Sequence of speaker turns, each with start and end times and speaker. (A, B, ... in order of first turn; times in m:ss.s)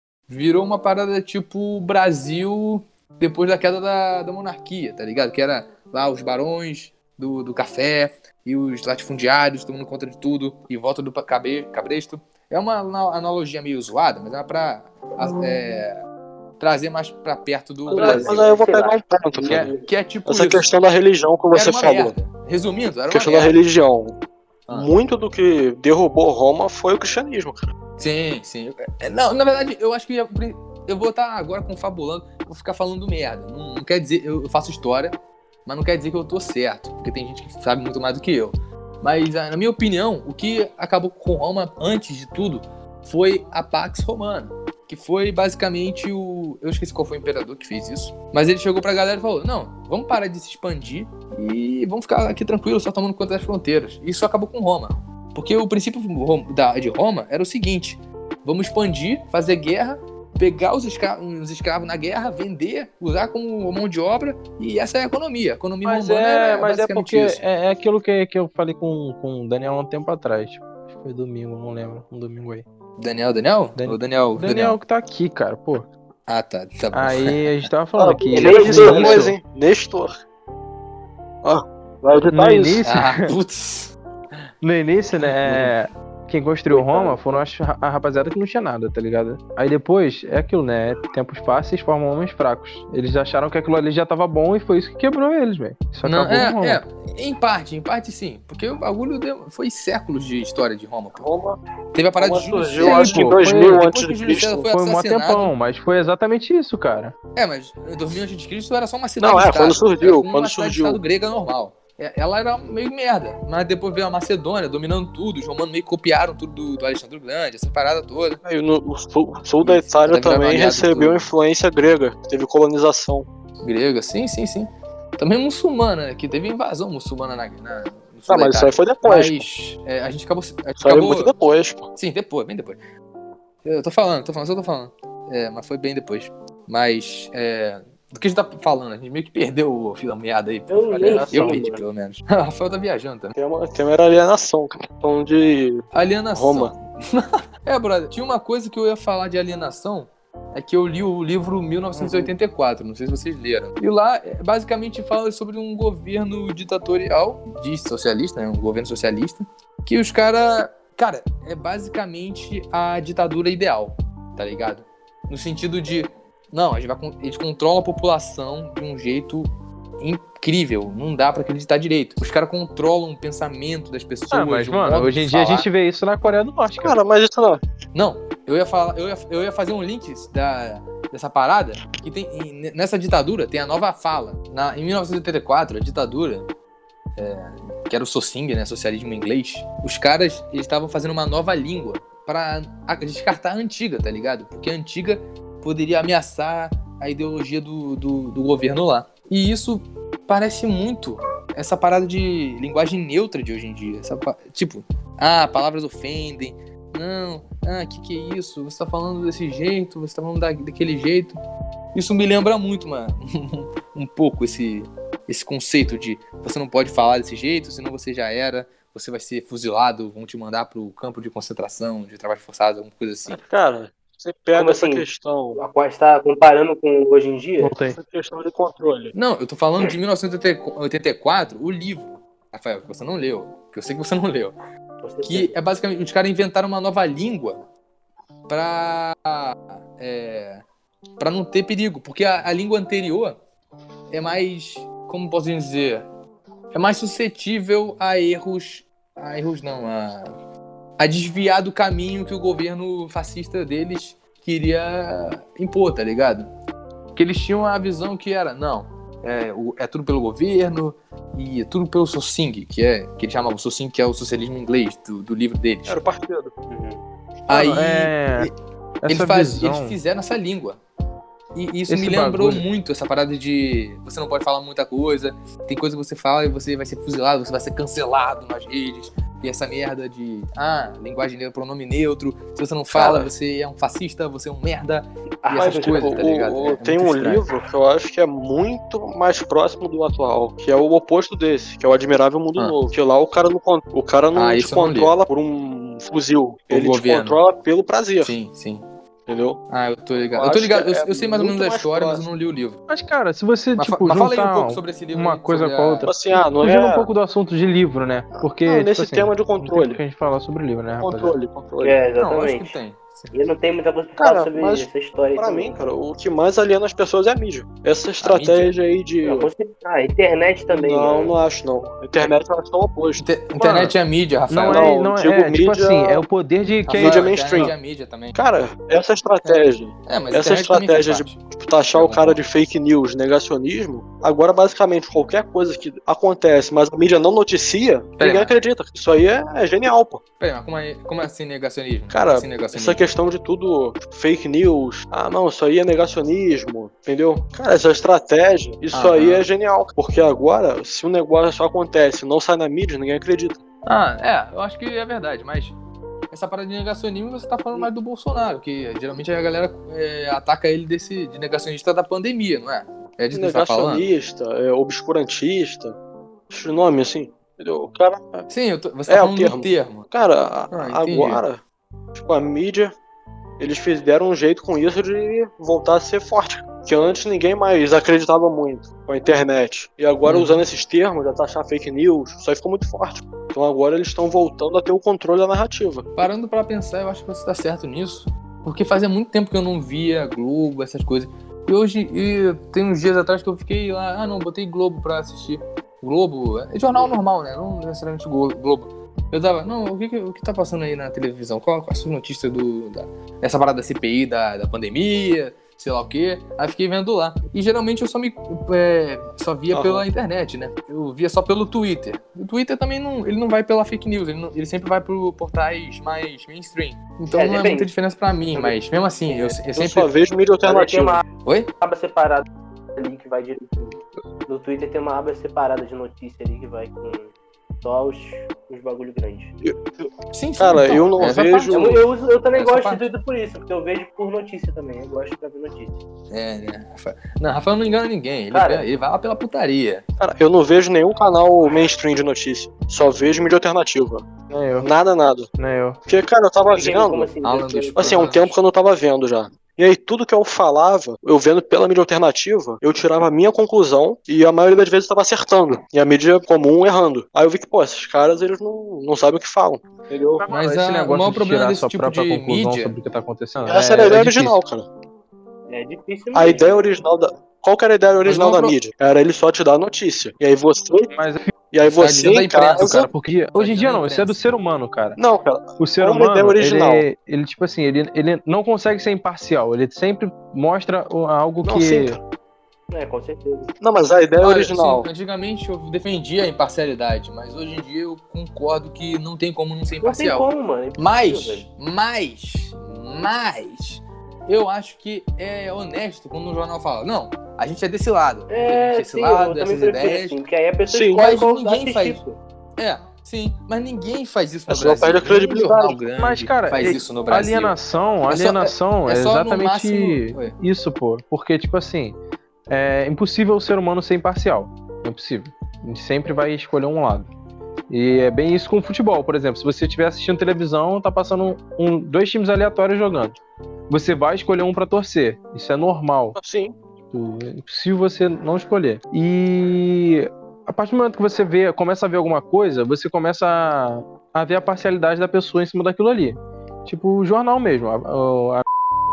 0:00.3-0:16.0 A
0:16.6-0:18.4 A
0:17.9-0:22.1 B
0:17.9-0:19.0 C
0:19.4-0:20.7 A
0:19.5-0:19.8 C
0:21.5-0:23.6 A
0:23.1-0:24.2 B
0:24.7-0:27.7 B
0:28.0-1:07.4 A
1:05.8-1:12.6 D
1:13.0-1:14.8 A
1:13.8-1:15.9 D
1:16.3-1:17.7 A
1:16.9-1:19.4 D
1:18.0-1:20.1 B
1:18.3-1:19.2 C
1:21.4-1:22.8 B
1:22.2-1:23.4 D
1:22.8-1:23.9 A
1:24.6-1:36.8 D
1:25.2-1:25.7 A
1:26.7-1:27.2 B
1:26.9-1:27.4 C
1:36.0-1:41.3 A
1:41.1-1:41.6 B
1:41.9-1:45.5 A
1:42.2-1:44.7 B
1:42.8-1:43.8 D
1:44.7-1:47.1 D
1:47.4-1:58.4 A
1:49.2-1:51.0 B
1:58.4-2:03.3 B
1:59.6-2:01.3 A
2:03.6-2:11.3 A
2:08.3-2:09.4 B
2:10.8-2:11.9 B
2:11.9-2:12.8 A
2:13.6-2:23.3 A
2:20.7-2:21.8 C
2:21.0-2:21.4 B
2:23.3-2:26.7 B
2:25.9-2:49.5 A
2:32.0-2:32.3 B
2:50.0-2:55.7 A
2:54.3-2:57.0 D
2:56.8-2:57.6 B
2:57.9-3:06.5 A
3:07.2-3:31.4 A
3:31.9-3:43.4 A
3:43.3-3:45.6 B
3:44.5-3:47.7 C
3:47.6-3:48.0 D
3:47.9-3:49.1 B
3:49.1-3:54.5 A
3:55.0-3:55.6 C
3:55.2-3:57.6 A
3:58.5-4:00.6 A
4:01.2-4:03.4 A
4:04.1-4:06.0 A
4:06.7-4:10.3 A
4:11.0-4:16.5 A
4:17.1-4:26.0 A
4:25.9-4:26.5 B
4:26.7-4:27.0 C
4:27.5-4:28.5 A
4:27.5-4:28.5 D
4:29.0-4:30.0 D
4:29.1-4:30.8 A
4:31.5-4:47.5 A
4:31.9-4:32.6 D
4:42.9-4:43.3 B
4:45.4-4:46.0 C
4:45.6-4:58.4 B
4:54.4-4:55.1 A
4:56.7-4:57.4 A
4:58.2-4:58.9 A
4:59.3-4:59.6 B
4:59.7-5:02.8 A
5:00.3-5:02.2 B
5:02.9-5:11.4 D
5:03.8-5:06.1 A
5:06.1-5:07.1 B
5:08.4-5:10.0 B
5:11.0-5:12.0 B
5:11.8-5:12.8 C
5:12.2-5:13.3 A
5:13.3-5:15.8 C
5:14.2-5:19.5 B
5:18.2-5:18.8 A
5:19.2-5:21.4 C
5:20.7-5:23.2 B
5:23.2-5:24.8 A
5:23.6-5:23.9 D
5:24.5-5:27.7 D
5:24.6-5:26.2 B
5:26.9-5:28.4 A
5:26.9-5:27.7 B
5:28.4-5:40.2 B
5:29.4-5:31.4 A
5:31.9-5:32.4 A
5:38.2-5:38.5 A
5:40.4-5:43.0 A
5:42.1-5:53.6 B
5:48.9-5:49.4 A
5:53.9-5:55.8 A
5:56.3-6:04.1 A
6:03.3-6:06.0 B
6:06.5-6:08.5 B
6:08.5-6:10.1 A
6:09.1-6:11.6 B
6:10.7-6:11.4 A
6:12.1-6:12.9 B
6:13.6-6:26.1 B
6:20.2-6:20.6 A
6:26.2-7:00.1 A
6:49.7-6:50.1 B
6:57.4-6:57.9 C
6:58.5-6:59.6 C
6:59.7-7:01.2 B
7:00.6-7:01.2 C
7:01.4-7:01.7 A
7:01.8-7:09.5 C
7:09.6-7:12.0 B
7:10.3-7:11.9 A
7:11.7-7:15.9 C
7:12.5-7:13.1 A
7:16.3-7:20.0 A
7:18.5-7:18.9 C
7:20.2-7:24.3 B
7:24.5-7:24.9 D
7:24.8-7:25.5 B
7:25.6-7:26.0 D
7:26.1-7:27.3 B
7:26.7-7:28.5 C
7:27.4-7:28.5 A
7:28.0-7:40.4 B
7:40.4-7:44.6 D
7:40.5-7:43.0 A
7:43.6-7:44.9 B
7:45.7-7:46.8 C
7:46.3-7:51.1 B
7:48.2-7:48.8 A
7:51.1-7:51.5 D
7:51.7-7:53.1 B
7:51.9-7:54.4 A
7:52.8-7:55.2 D
7:55.2-7:57.1 B
7:55.8-8:02.2 D
8:01.6-8:02.2 B
8:02.9-8:03.7 C
8:03.8-8:05.1 B
8:04.4-8:20.4 A
8:10.0-8:11.6 C
8:18.5-8:22.4 C
8:20.9-8:21.2 B
8:21.1-8:22.2 A
8:22.8-8:27.8 A
8:24.7-8:26.0 B
8:26.2-8:32.2 D
8:28.3-8:30.6 A
8:32.7-8:37.3 D
8:37.9-8:43.4 D
8:43.9-8:46.4 D
8:46.4-8:46.8 B
8:47.1-8:58.6 D